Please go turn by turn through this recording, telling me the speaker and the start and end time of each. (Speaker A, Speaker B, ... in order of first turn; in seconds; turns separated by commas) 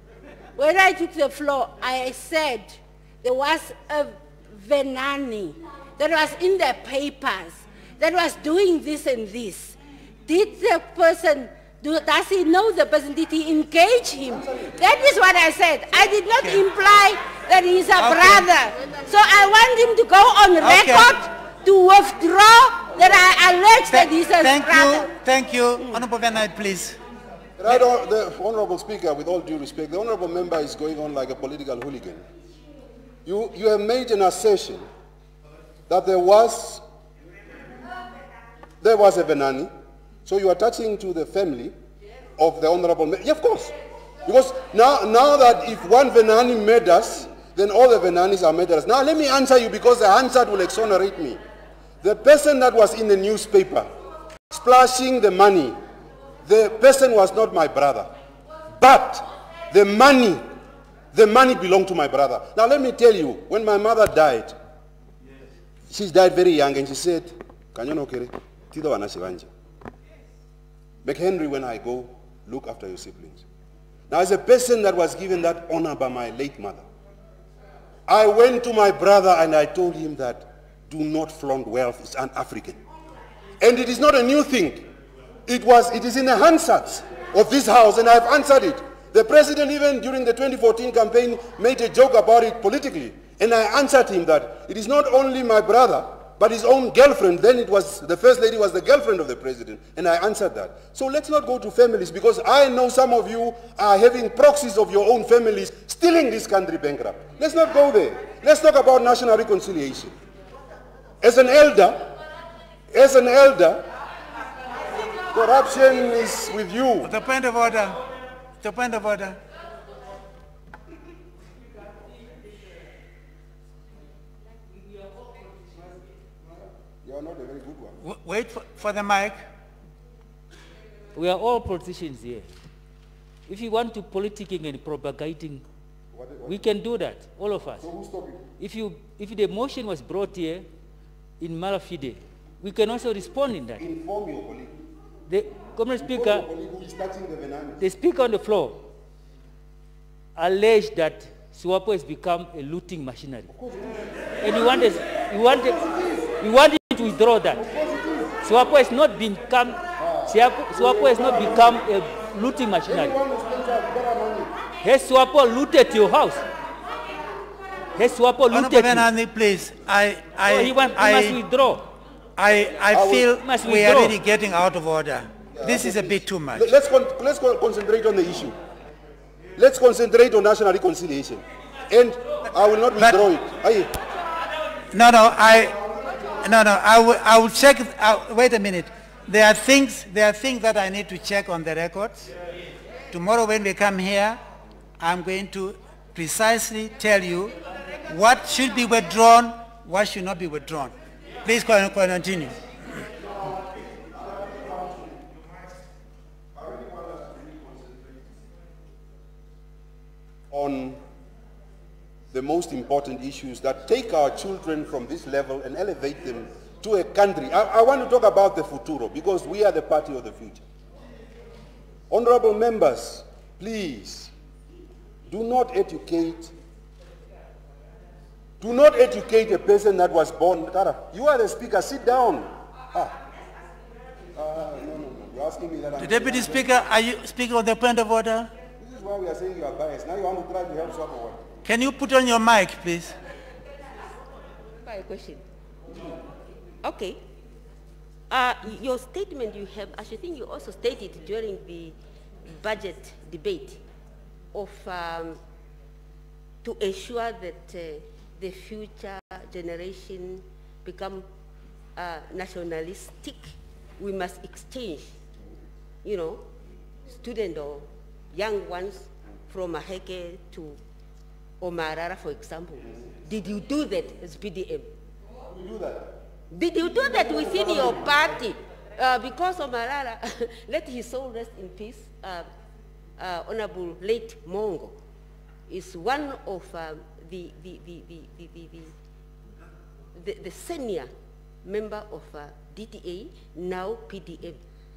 Speaker A: 0.6-25.1, Speaker B: 14.3-14.8, Speaker C: 18.0-18.5, Speaker C: 20.6-21.1, Speaker C: 23.9-27.0, Speaker B: 27.6-32.2, Speaker B: 33.2-34.9, Speaker B: 35.9-36.8, Speaker B: 38.8-39.7, Speaker B: 40.2-41.8, Speaker B: 42.4-51.4, Speaker B: 52.0-53.9, Speaker B: 54.5-55.8, Speaker B: 56.5-58.1, Speaker B: 58.8-60.4, Speaker B: 61.1-64.5, Speaker B: 65.9-69.5, Speaker B: 71.0-73.4, Speaker B: 74.1-76.8, Speaker B: 78.1-82.8, Speaker B: 83.6-84.9, Speaker B: 85.5-110.2, Speaker B: 111.2-112.1, Speaker B: 112.9-113.8, Speaker B: 115.3-117.1, Speaker C: 117.0-118.0, Speaker C: 118.6-119.4, Speaker B: 127.0-128.0, Speaker C: 128.0-129.4, Speaker D: 131.2-132.5, Speaker D: 133.5-135.6, Speaker B: 136.1-136.6, Speaker D: 136.4-137.9, Speaker B: 137.8-138.4, Speaker D: 138.6-140.7, Speaker D: 141.4-143.8, Speaker B: 143.8-144.8, Speaker D: 145.3-146.5, Speaker B: 146.0-147.9, Speaker D: 147.8-148.8, Speaker D: 150.4-153.5, Speaker B: 153.5-154.9, Speaker D: 154.4-155.8, Speaker B: 155.4-156.4, Speaker D: 156.4-157.6, Speaker B: 157.6-158.4, Speaker D: 158.4-163.2, Speaker B: 160.0-161.8, Speaker B: 162.8-164.6, Speaker D: 164.8-166.5, Speaker D: 168.0-169.1, Speaker C: 168.5-171.4, Speaker D: 170.4-171.9, Speaker C: 172.4-176.7, Speaker B: 172.9-173.3, Speaker D: 173.4-174.2, Speaker B: 175.5-178.6, Speaker B: 179.6-183.9, Speaker C: 184.9-185.8, Speaker C: 186.4-192.3, Speaker C: 193.1-194.4, Speaker C: 195.0-197.6, Speaker C: 198.1-200.9, Speaker C: 201.4-202.6, Speaker B: 203.4-205.2, Speaker B: 206.6-208.2, Speaker B: 210.5-211.0, Speaker B: 212.3-220.7, Speaker B: 222.1-224.3, Speaker B: 225.3-226.5, Speaker B: 228.6-233.2, Speaker B: 234.3-236.7, Speaker C: 236.0-238.5, Speaker B: 238.8-241.4, Speaker C: 241.7-243.1, Speaker E: 244.8-245.4, Speaker E: 246.8-247.2, Speaker E: 248.3-253.8, Speaker E: 254.5-255.4, Speaker E: 256.6-261.3, Speaker E: 262.0-265.2, Speaker E: 266.0-266.5, Speaker E: 267.1-270.8, Speaker E: 271.6-274.9, Speaker B: 275.5-276.1, Speaker E: 276.5-282.5, Speaker B: 276.8-278.4, Speaker E: 283.2-285.0, Speaker E: 285.7-288.9, Speaker E: 290.1-291.1, Speaker E: 291.6-294.6